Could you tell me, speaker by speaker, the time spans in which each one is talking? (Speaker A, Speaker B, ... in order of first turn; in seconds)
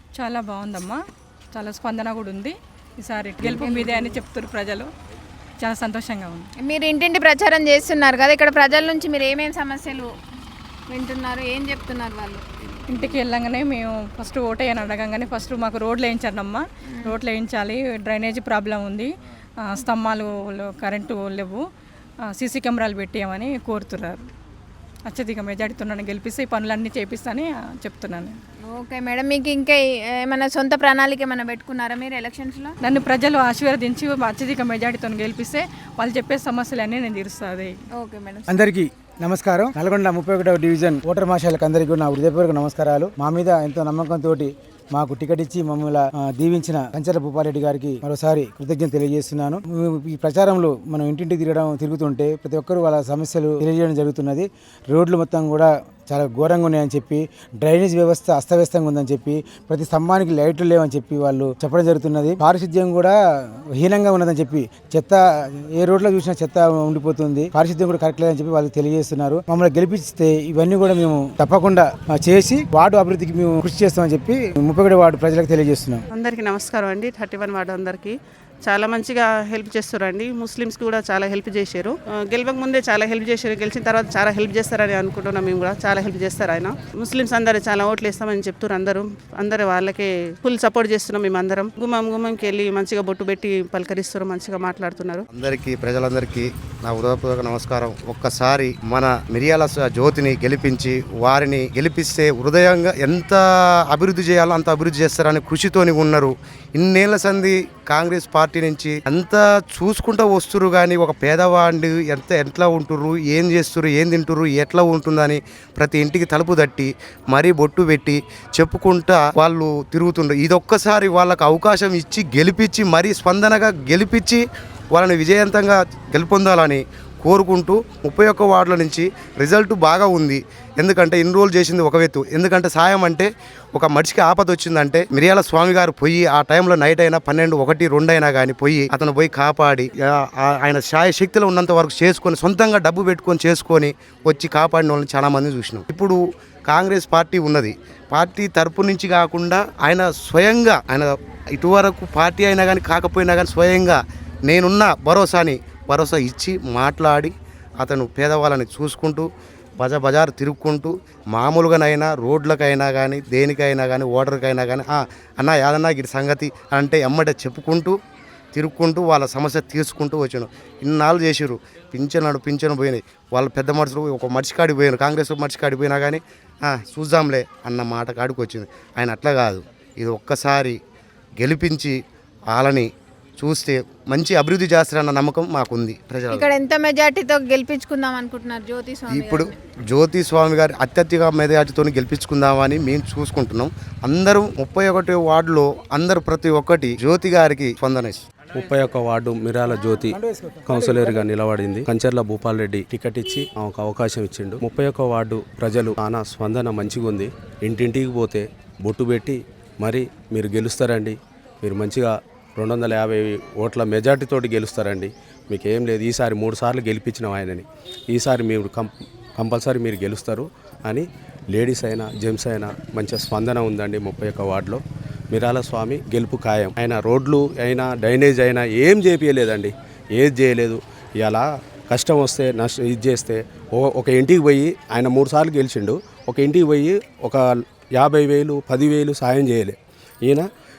Speaker A: 0.1-1.0, 1.5-4.9, 5.6-6.5, 12.9-21.6, 22.3-24.2, 25.1-28.4, 32.8-37.8
Speaker B: 3.4-4.2, 6.6-10.1, 10.9-12.4, 16.9-17.2, 28.7-32.8, 38.0-38.5, 186.3-189.5
Speaker C: 38.5-63.2, 63.7-76.0, 200.0-201.2
Speaker D: 76.1-95.2
Speaker E: 95.3-159.2, 159.8-167.9, 168.5-180.8, 181.4-182.0, 182.5-186.5, 189.1-198.2
Speaker F: 198.5-200.2, 200.7-237.4, 237.9-240.4